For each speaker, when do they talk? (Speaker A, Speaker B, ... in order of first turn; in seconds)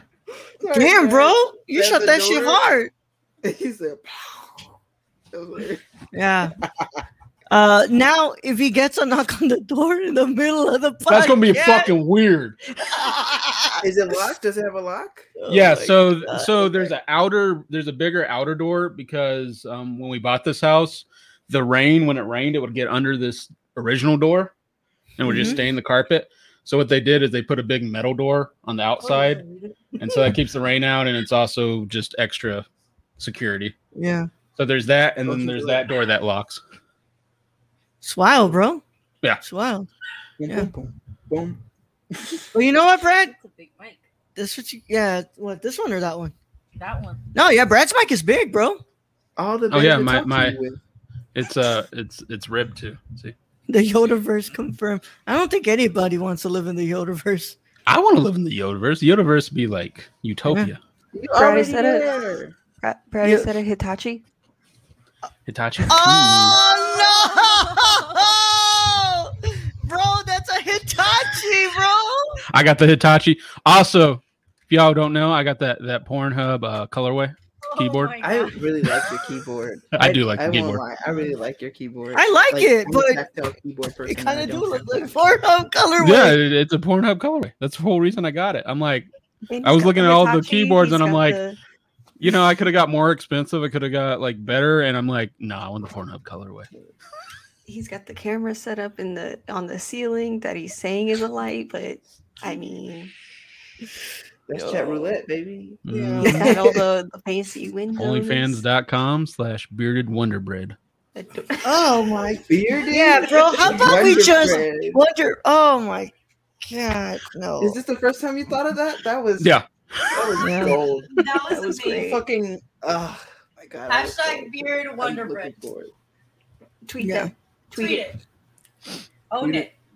Speaker A: 0.6-2.6, 3.4-4.7, 5.3-5.8, 13.8-15.3, 35.3-35.9, 40.4-41.6, 42.1-42.5, 49.4-50.8, 61.1-62.5, 78.2-85.1, 104.5-106.8, 112.5-115.0, 117.6-119.6, 120.1-125.9, 129.4-129.7
Speaker B: 0.7-2.9, 6.1-6.5, 7.5-11.9, 12.9-13.8, 15.4-16.9, 25.2-25.6, 29.0-30.0, 33.9-34.3, 38.0-38.8, 39.4-39.9, 42.5-43.3, 44.4-46.4, 47.3-48.8, 53.7-57.6, 60.5-60.7, 63.2-63.5, 65.9-72.4, 82.1-83.2, 84.0-86.4, 104.6-105.0, 105.9-106.6, 111.6-117.8, 120.4-120.8, 127.0-127.3
Speaker C: 11.1-12.6, 15.5-24.5, 25.2-29.4, 30.0-32.6, 33.2-33.7, 34.5-36.6, 49.7-50.6, 51.4-53.3, 57.9-60.8, 65.5-66.6, 72.5-78.2, 79.9-80.8, 86.0-89.1, 89.6-91.4, 92.2-96.7, 105.8-106.5, 108.0-110.8, 119.4-120.3
Speaker D: 43.1-44.0, 46.8-47.2, 66.6-68.2, 77.6-78.6, 121.1-122.2, 123.9-125.5, 127.7-128.2, 129.3-129.7
Speaker E: 61.3-62.2, 62.8-64.2, 89.5-91.6, 97.7-103.1, 106.2-108.6, 111.1-111.8, 121.5-122.2, 126.8-128.1